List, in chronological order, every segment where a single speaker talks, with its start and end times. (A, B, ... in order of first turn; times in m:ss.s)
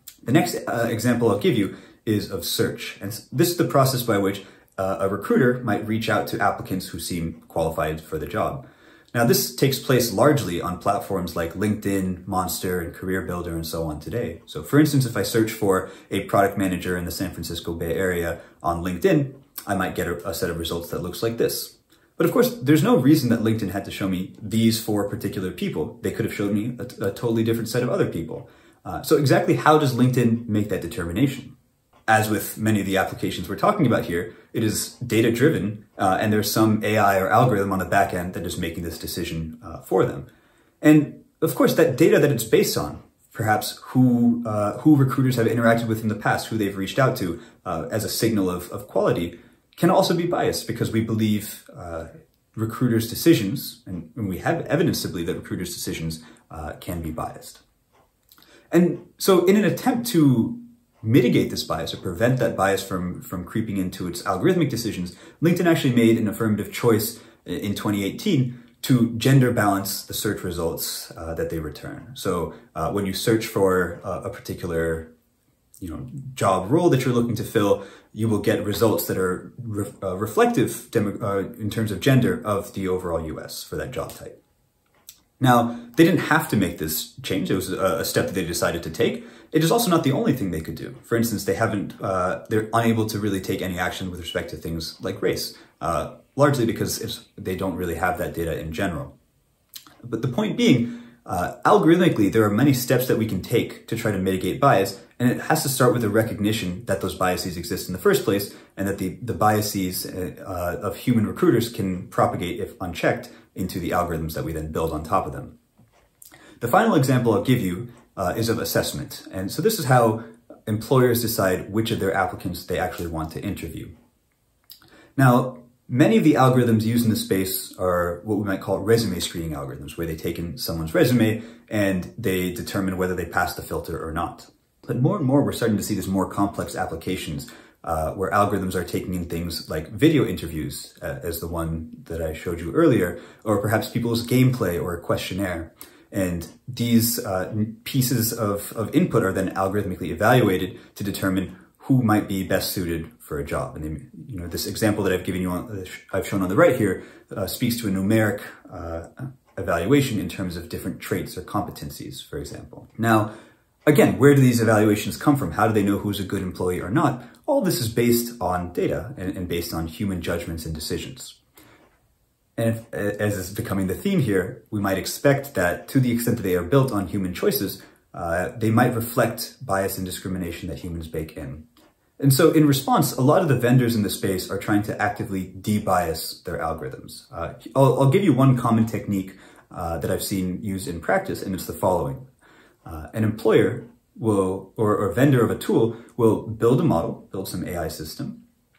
0:00.2-0:31.5 A
0:32.1-0:40.3 A
0:40.8-0:57.6 A
0:58.7-1:15.1 A
1:15.8-1:24.4 A
1:25.4-1:39.1 A
1:40.0-1:55.5 A
1:56.6-2:03.9 A
2:05.2-2:43.3 A
2:43.8-2:51.4 A
2:52.6-3:01.6 A
3:02.2-3:12.3 A
3:12.8-3:18.4 A